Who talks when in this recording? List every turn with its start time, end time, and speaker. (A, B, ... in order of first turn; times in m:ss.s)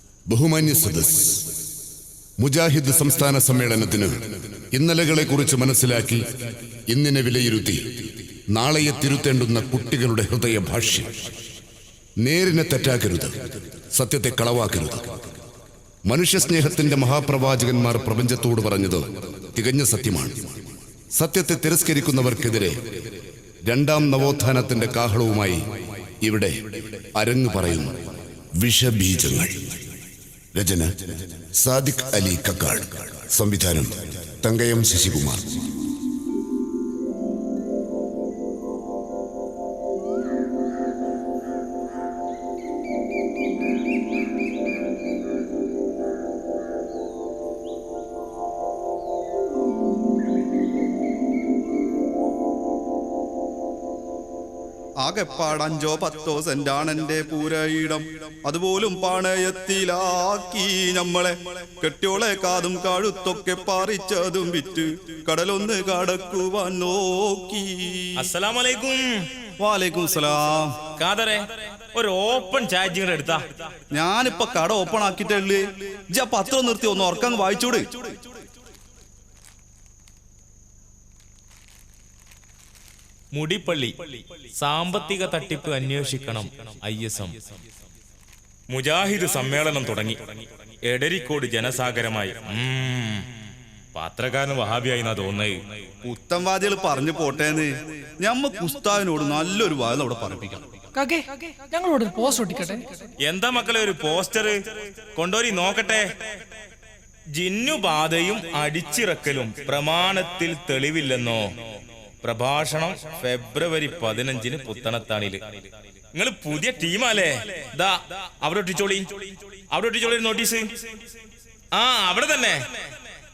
0:00.3-0:01.5 A
0:02.4-0:06.2 A
0:06.9-0:11.1 A
0:12.2-0:15.3 A
0:16.1-0:20.6 A
0:21.1-0:23.1 A
0:23.7-0:25.6 A
0:26.2-0:28.0 A
0:28.6-0:29.8 A
0:30.5-0:35.6 A
0:55.0-1:08.3 B
1:08.2-1:09.3 C
1:09.6-1:10.8 B
1:11.0-1:13.5 C
1:13.9-1:15.6 B
1:16.1-1:18.1 B
1:23.3-1:23.9 C
1:24.6-1:27.3 C
1:28.7-1:30.2 C
1:30.9-1:33.3 C
1:33.9-1:35.6 C
1:36.0-1:40.6 B
1:40.9-1:43.0 D
1:43.2-1:44.6 C
1:45.2-1:46.1 C
1:47.3-1:51.5 C
1:52.2-1:55.4 C
1:56.1-1:59.1 C
1:59.7-2:00.6 C
2:01.7-2:02.7 C